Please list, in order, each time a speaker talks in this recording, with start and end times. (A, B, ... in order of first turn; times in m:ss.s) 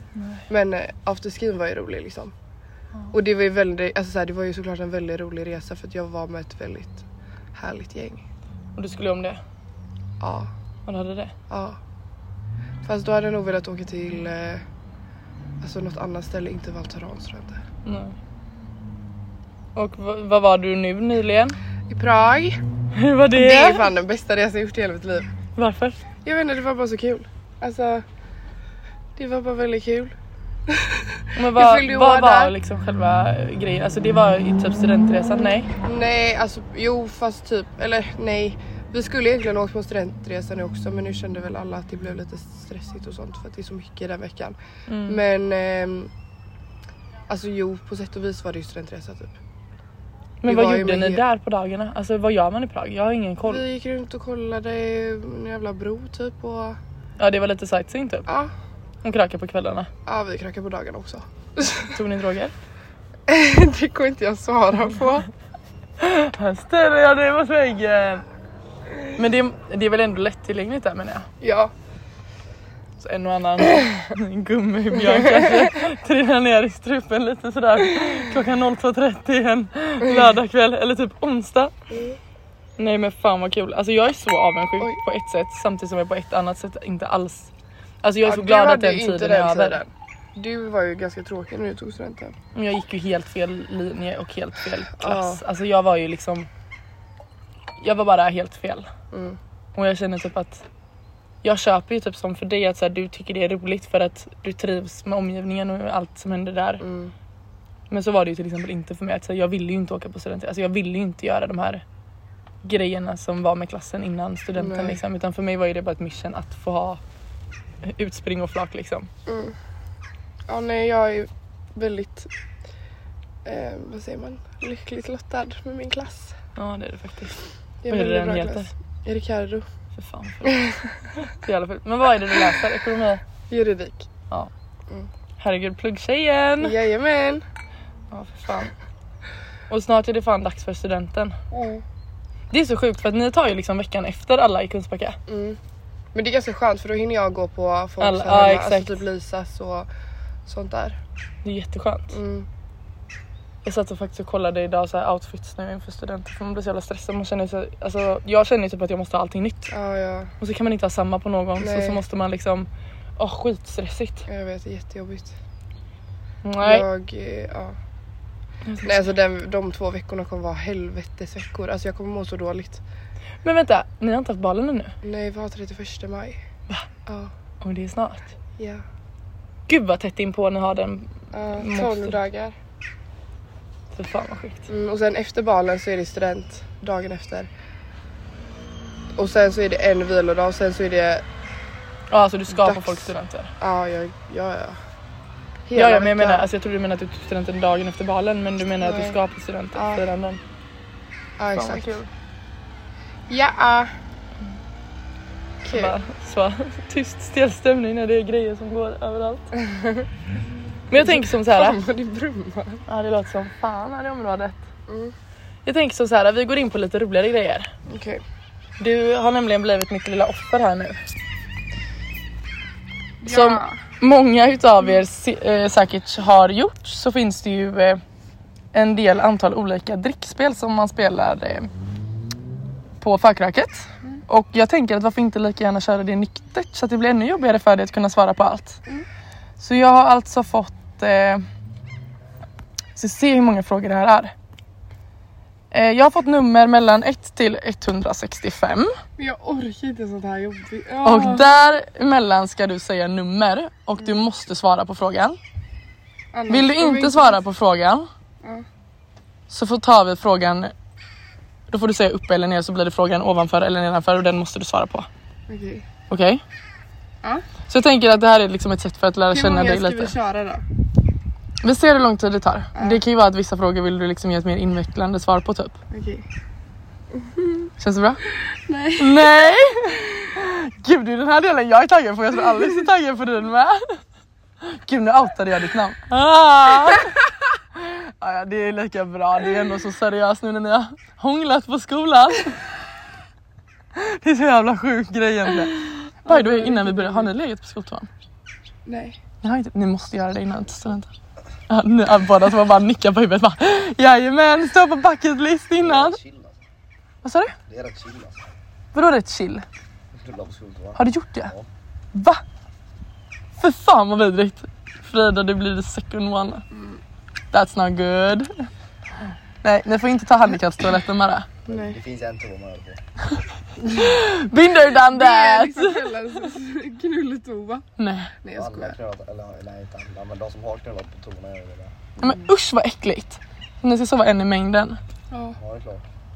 0:00.2-0:00.4 A
0:00.5-0:02.3 B
0:03.1-0:08.2 B
0:08.8-0:09.4 A
0:10.2-0:10.5 B
0:10.9-0:11.3 A
0:11.5-0:11.8 B
0:12.8-0:14.6 B
0:15.6-0:17.6 B
0:17.8-0:18.2 A
0:19.8-0:21.6 A
0:21.9-0:22.6 B
0:22.9-0:23.9 A
0:23.3-0:25.3 B
0:25.6-0:26.0 A
0:26.2-0:28.0 B
0:29.2-0:30.1 B
0:30.7-0:32.5 B
0:31.4-0:35.7 A
0:35.8-0:44.6 B
0:44.9-0:45.2 A
0:45.1-0:46.1 B
0:47.3-0:49.4 B
0:50.4-0:53.6 A
0:50.5-0:51.2 B
0:53.4-0:56.8 B
0:57.2-0:58.3 A
0:58.3-0:58.5 B
0:59.0-0:59.9 A
1:00.1-1:02.0 B
1:01.9-1:02.5 A
1:03.3-1:05.3 B
1:06.0-1:08.2 A
1:09.2-1:11.3 A
1:11.4-1:11.7 B
1:13.0-1:21.7 A
1:15.0-1:15.8 B
1:21.9-1:22.2 B
1:22.8-1:27.5 A
1:28.0-1:29.8 A
1:28.2-1:32.4 B
1:32.6-1:36.5 A
1:35.0-1:35.4 B
1:37.8-1:38.9 A
1:39.1-1:39.4 B
1:39.8-1:40.6 A
1:41.4-1:46.8 A
1:46.8-1:47.1 B
1:47.9-1:51.8 A
1:52.6-1:57.0 A
1:54.6-1:55.0 B
1:57.8-1:59.1 A
1:59.3-1:59.6 B
2:00.5-2:02.3 B
2:03.4-2:06.4 B
2:06.6-2:07.4 A
2:07.8-2:09.7 B
2:07.9-2:08.7 A
2:09.9-2:13.2 A
2:10.4-2:10.9 B
2:13.5-2:14.1 B
2:15.4-2:16.8 A
2:16.6-2:17.4 B
2:18.1-2:18.7 A
2:19.7-2:21.4 A
2:21.5-2:21.8 B
2:22.5-2:25.2 A
2:25.3-2:25.6 B
2:26.1-2:29.9 B
2:28.0-2:29.0 A
2:30.5-2:31.0 B
2:31.4-2:32.2 A
2:32.1-2:32.5 B
2:33.6-2:39.7 A
2:39.7-2:40.3 B
2:40.4-2:44.3 A
2:41.6-2:42.0 B
2:44.3-2:45.4 B
2:46.4-2:46.9 A
2:46.6-2:47.8 B
2:48.7-2:49.1 A
2:48.8-2:52.8 B
2:53.4-2:55.0 A
2:55.0-2:56.4 B
2:57.1-2:57.3 B
2:57.6-2:58.3 A
2:58.6-2:58.8 B
2:59.7-3:02.2 A
3:01.3-3:02.6 B
3:03.9-3:04.7 A
3:04.7-3:07.5 B
3:09.2-3:11.3 B
3:12.1-3:13.5 A
3:12.5-3:14.8 B
3:15.7-3:16.5 B
3:15.8-3:20.4 A
3:18.8-3:19.2 B
3:19.8-3:20.0 B
3:21.4-3:21.9 B
3:21.5-3:22.1 A
3:23.3-3:23.9 B
3:25.6-3:26.0 B
3:25.7-3:29.5 A
3:29.6-3:30.1 B
3:30.9-3:31.8 A
3:31.0-3:32.8 B
3:32.9-3:34.6 A
3:34.9-3:35.1 B
3:35.6-3:37.7 A
3:37.9-3:38.2 B
3:38.8-3:41.0 A
3:43.2-3:43.8 B
3:43.3-3:48.0 A
3:48.7-3:51.7 A
3:53.0-3:58.8 A
3:59.6-4:01.4 A
4:03.0-4:04.3 A
4:05.7-4:09.0 A
4:09.2-4:11.7 B
4:11.0-4:15.4 A
4:16.3-4:17.4 B
4:16.5-4:18.1 A
4:19.5-4:20.7 A
4:21.7-4:25.1 A
4:25.5-4:25.9 B
4:26.1-4:26.4 A
4:27.7-4:30.1 A
4:29.3-4:30.6 B
4:31.6-4:35.8 A
4:32.8-4:33.0 B
4:35.9-4:36.2 B
4:37.2-4:37.7 B
4:37.8-4:38.2 A
4:38.5-4:40.0 B
4:39.0-4:44.0 A
4:44.6-4:47.1 A
4:47.8-4:52.6 A
4:53.9-4:58.1 A
4:56.3-4:57.3 B
4:58.9-4:59.2 B
4:59.4-5:01.1 A
5:01.7-5:06.2 A
5:05.8-5:06.6 C
5:07.2-5:07.6 A
5:07.7-5:08.5 C
5:08.9-5:09.6 A
5:10.1-5:11.7 C
5:11.0-5:11.5 A
5:12.1-5:12.4 A
5:13.6-5:16.6 A
5:16.7-5:17.0 B
5:17.5-5:18.7 A
5:19.6-5:21.5 A
5:21.7-5:23.0 C
5:21.7-5:22.0 B
5:23.9-5:24.2 B
5:23.9-5:26.1 A
5:24.9-5:27.8 B
5:28.0-5:28.3 A
5:28.4-5:29.0 B
5:28.5-5:32.2 C
5:32.2-5:35.0 A
5:35.3-5:35.6 B
5:35.6-5:36.1 C